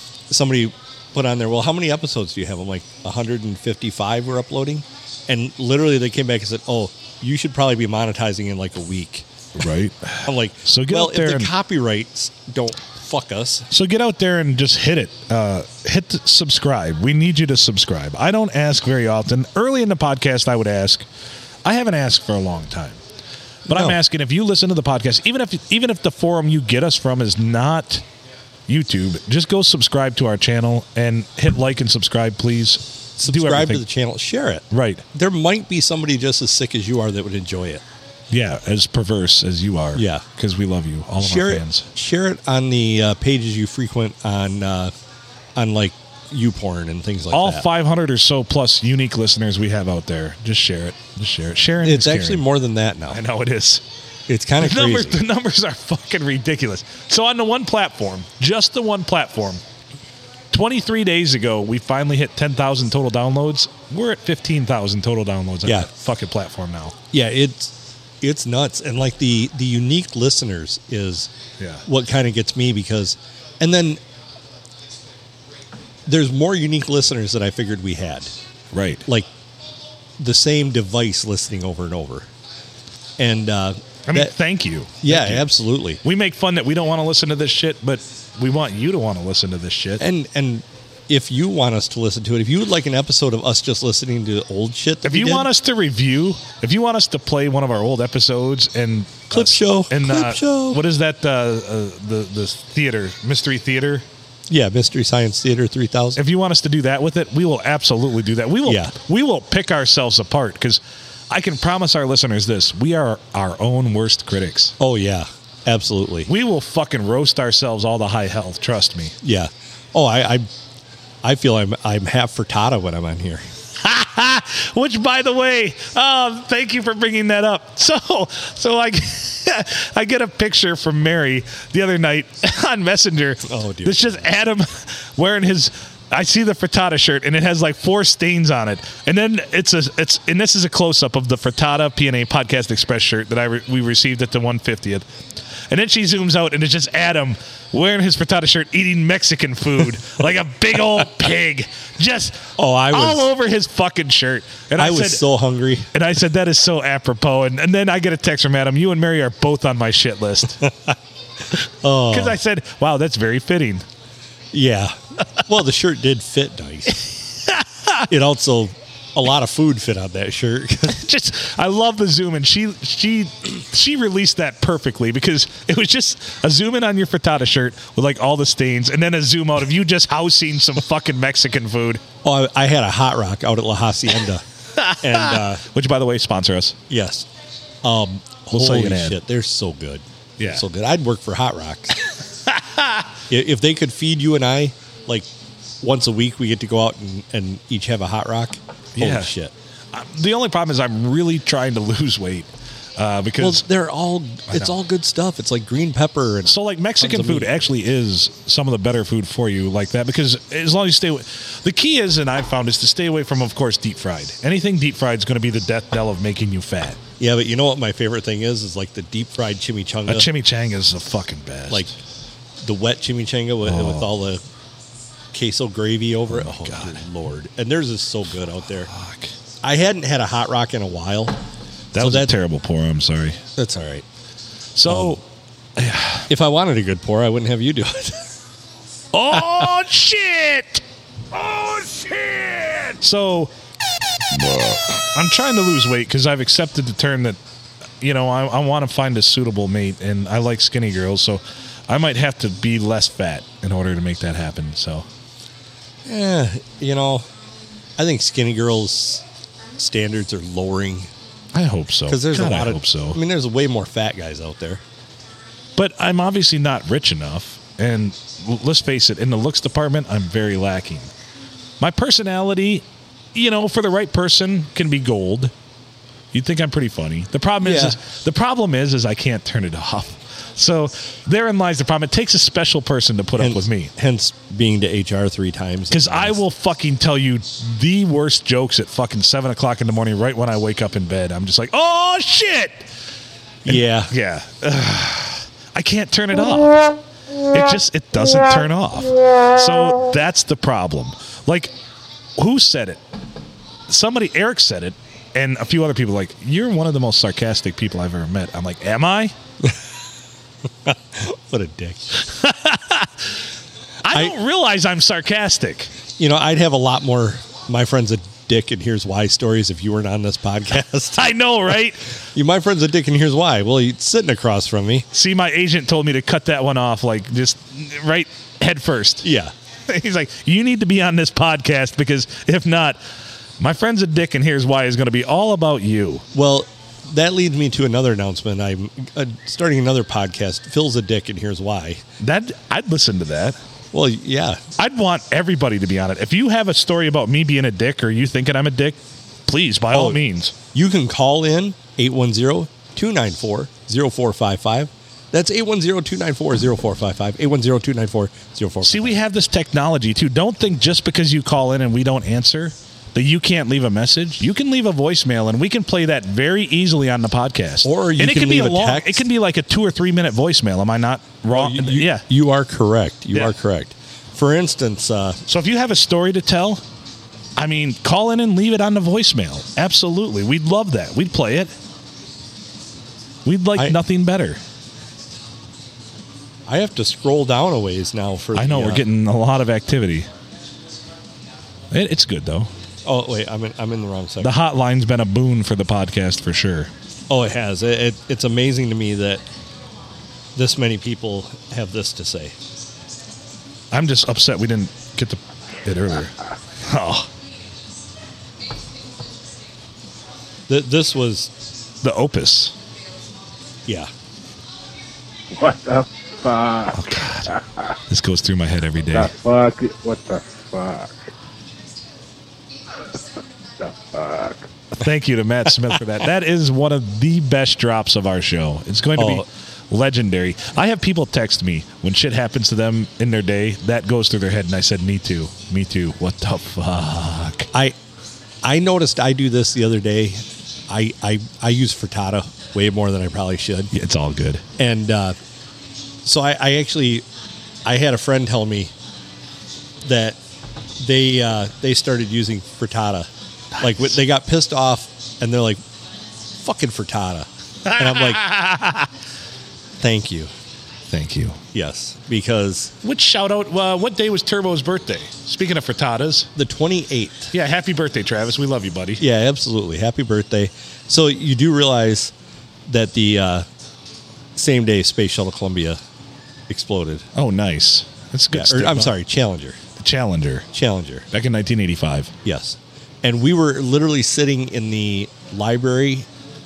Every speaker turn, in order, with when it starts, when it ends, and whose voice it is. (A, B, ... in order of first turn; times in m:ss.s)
0:00.3-0:09.3 A
0:09.6-0:11.5 B
0:10.2-0:13.7 A
0:13.7-0:21.1 B
0:21.6-0:23.0 B
0:23.6-0:28.0 B
0:23.7-0:24.0 A
0:28.7-0:33.8 B
0:33.2-0:37.8 A
0:34.7-0:35.0 B
0:38.3-0:41.9 B
0:39.9-0:40.3 A
0:41.2-0:44.9 A
0:45.6-0:47.6 A
0:47.3-0:52.4 B
0:51.8-0:53.2 A
0:53.1-0:53.8 B
0:54.3-0:55.2 A
0:54.6-0:59.6 B
1:00.5-1:06.9 B
1:07.1-1:11.3 A
1:11.8-1:14.0 A
1:16.0-1:18.3 A
1:18.7-1:19.0 B
1:20.2-1:22.3 A
1:23.2-1:24.3 A
1:24.1-1:25.5 B
1:25.0-1:26.0 A
1:26.0-1:30.0 B
1:30.0-1:35.5 A
1:35.0-1:44.0 B
1:39.3-1:40.8 A
1:44.5-1:46.2 A
1:46.2-1:54.7 B
1:48.6-1:48.9 A
1:54.8-1:56.3 A
1:56.3-1:59.1 B
1:59.2-2:00.5 A
2:01.2-2:03.4 A
2:03.8-2:25.1 B
2:13.4-2:14.3 A
2:25.7-2:35.2 B
2:32.6-2:33.3 A
2:34.8-2:35.9 A
2:35.9-2:40.6 B
2:40.7-2:40.9 A
2:41.6-2:42.4 A
2:42.1-2:43.8 B
2:44.5-2:47.0 A
2:47.4-2:48.0 B
2:48.1-2:51.0 A
2:50.9-3:02.0 B
3:02.2-3:05.6 A
3:04.8-3:06.8 B
3:06.9-3:07.3 A
3:07.8-3:12.0 A
3:08.5-3:09.2 B
3:10.4-3:10.6 B
3:12.4-3:13.1 B
3:13.3-3:15.3 A
3:15.8-3:19.5 A
3:19.0-3:19.3 B
3:19.9-3:23.6 B
3:23.4-3:27.5 A
3:26.4-3:37.0 B
3:37.2-3:40.3 A
3:40.1-3:41.9 B
3:42.6-3:44.4 A
3:43.6-3:44.1 B
3:45.3-3:48.9 A
3:46.3-3:47.0 B
3:48.9-3:49.3 B
3:49.6-3:51.4 A
3:51.9-3:53.4 B
3:52.0-3:52.3 A
3:53.6-3:54.0 A
3:54.7-3:55.2 B
3:54.9-3:55.2 A
3:55.8-3:56.3 B
3:56.3-3:58.2 A
3:59.1-4:00.8 B
4:01.3-4:03.5 B
4:04.3-4:07.4 B
4:08.0-4:15.0 B
4:16.0-4:17.3 A
4:18.0-4:19.2 A
4:19.8-4:21.1 A
4:21.5-4:23.2 B
4:22.1-4:24.8 A
4:25.8-4:31.1 B
4:31.8-4:35.5 B
4:36.3-4:43.9 B
4:37.6-4:38.0 A
4:43.4-4:46.4 A
4:45.9-4:52.9 B
4:53.6-4:54.1 A
4:53.7-4:56.9 B
4:57.5-5:01.7 B
5:02.4-5:03.0 B
5:03.9-5:09.3 B
5:10.9-5:12.1 A
5:12.2-5:13.3 B
5:14.0-5:15.9 B
5:14.1-5:14.3 A
5:16.2-5:21.3 A
5:21.2-5:22.0 B
5:22.3-5:25.1 A
5:25.1-5:29.2 B
5:29.2-5:29.5 A
5:29.9-5:33.0 B
5:33.6-5:36.2 B
5:36.3-5:42.0 A
5:42.2-5:43.6 B
5:43.9-5:44.6 A
5:44.8-5:50.5 B
5:49.9-5:50.2 A
5:50.7-5:59.2 A
5:58.8-6:12.2 B
6:07.8-6:09.2 A
6:11.5-6:15.4 A
6:15.5-6:16.8 B
6:17.6-6:21.7 B
6:23.4-6:24.6 B
6:26.7-6:29.0 A
6:28.6-6:30.3 B
6:31.9-6:32.7 B
6:33.0-6:34.6 A
6:34.4-6:36.9 B
6:37.3-6:39.4 A
6:40.6-6:42.5 A
6:43.9-6:47.3 B
6:50.7-6:51.5 A
6:52.0-6:52.7 B
6:55.5-6:58.0 C
6:56.9-6:57.5 B
6:58.1-6:59.3 B
6:59.1-7:01.2 C
7:03.8-7:04.7 C
7:05.0-7:17.7 B
7:09.2-7:09.4 A
7:18.6-7:23.9 A
7:23.9-7:24.6 B
7:24.8-7:25.4 A
7:26.2-7:27.2 A
7:27.8-7:28.9 A
7:30.0-7:30.4 A
7:31.0-7:35.8 A
7:33.8-7:34.0 B
7:36.6-7:38.6 A
7:37.9-7:39.1 B
7:40.0-7:40.5 A
7:41.1-7:41.6 B
7:41.7-7:42.9 A
7:43.0-7:46.5 B
7:46.6-7:47.5 A
7:47.5-7:49.2 B
7:49.2-7:52.3 A
7:52.9-7:53.6 A
7:54.6-7:56.0 A
7:56.7-7:57.3 A
7:57.3-7:59.1 B
7:58.5-7:59.8 A
8:00.0-8:00.7 B
8:00.7-8:01.3 A
8:01.3-8:02.3 B
8:02.4-8:06.3 A